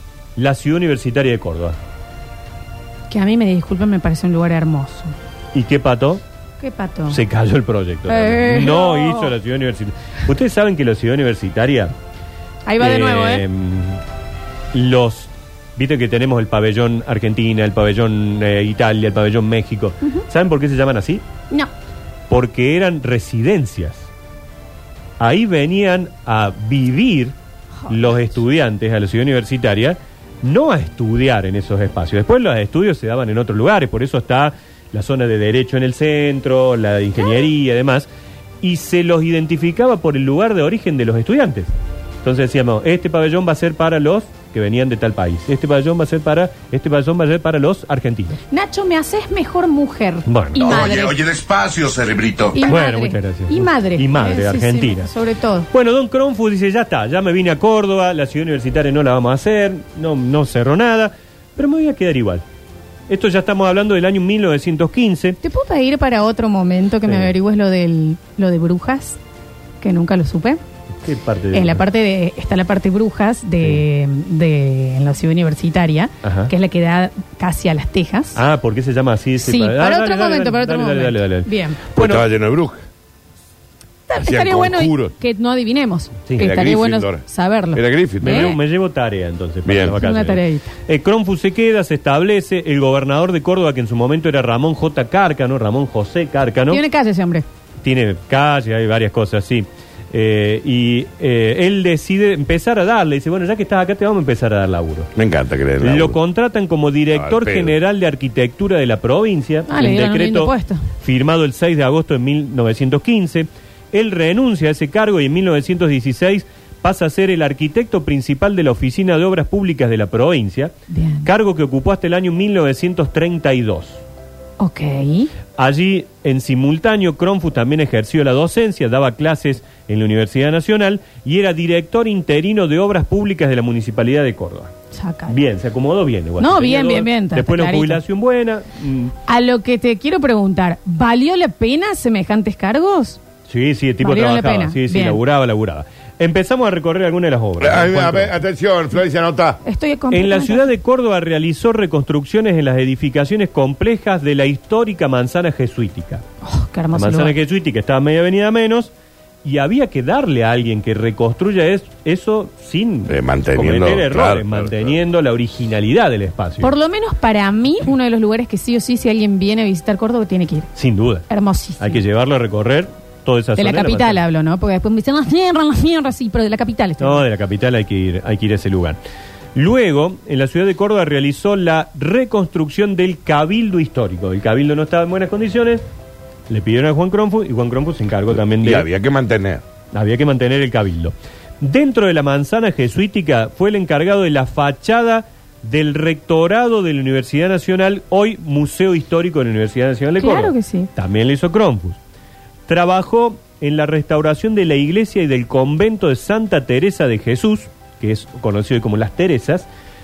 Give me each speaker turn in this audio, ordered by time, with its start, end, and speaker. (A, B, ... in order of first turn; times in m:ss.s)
0:00.4-0:01.8 A
0:03.1-0:05.1 B
0:05.5-0:06.2 A
0:06.6-0:07.2 B
0:07.1-0:11.9 A
0:08.1-0:09.3 B
0:12.6-0:13.4 B
0:12.8-0:14.0 A
0:14.7-0:21.2 A
0:22.3-0:24.1 A
0:25.2-0:27.3 A
0:27.9-0:38.1 A
0:27.9-0:28.2 B
0:38.6-0:41.7 A
0:42.2-0:48.4 A
0:48.5-0:51.2 B
0:50.3-0:51.0 A
0:50.6-0:52.6 C
0:52.5-0:55.7 B
0:52.6-0:55.1 A
0:55.7-1:02.4 A
1:03.1-1:05.4 A
1:05.4-1:09.2 B
1:07.0-1:07.3 A
1:09.8-1:10.6 B
1:11.0-1:11.8 A
1:11.5-1:18.4 B
1:16.2-1:16.5 A
1:18.3-1:22.2 A
1:19.4-1:21.8 B
1:22.0-1:22.8 C
1:24.1-1:28.6 B
1:24.2-1:25.1 C
1:26.3-1:26.5 A
1:26.4-1:28.5 C
1:28.2-1:36.8 A
1:29.6-1:30.0 C
1:30.0-1:30.7 B
1:36.7-1:37.4 B
1:37.8-1:45.1 A
1:45.1-1:46.2 C
1:45.8-2:00.7 A
1:47.1-1:47.8 C
1:49.7-1:50.8 B
2:00.9-2:01.3 B
2:01.2-2:04.0 A
2:04.6-2:05.3 B
2:05.6-2:14.7 A
2:14.9-2:15.3 B
2:15.3-2:19.1 A
2:16.4-2:18.0 B
2:19.3-2:23.2 B
2:23.5-2:28.3 A
2:24.0-2:25.2 B
2:27.6-2:29.6 C
2:29.6-2:30.7 B
2:30.1-2:36.2 A
2:36.4-2:37.3 B
2:36.9-2:38.9 A
2:39.4-2:46.7 A
2:43.1-2:44.9 C
2:46.6-2:50.7 B
2:50.8-2:51.2 A
2:51.3-2:52.0 B
2:51.8-2:54.2 A
2:53.6-2:57.2 B
2:57.0-2:59.0 A
2:59.5-3:05.8 A
3:06.5-3:08.9 A
3:08.3-3:09.6 C
3:09.9-3:22.0 A
3:20.2-3:20.9 B
3:22.7-3:29.7 A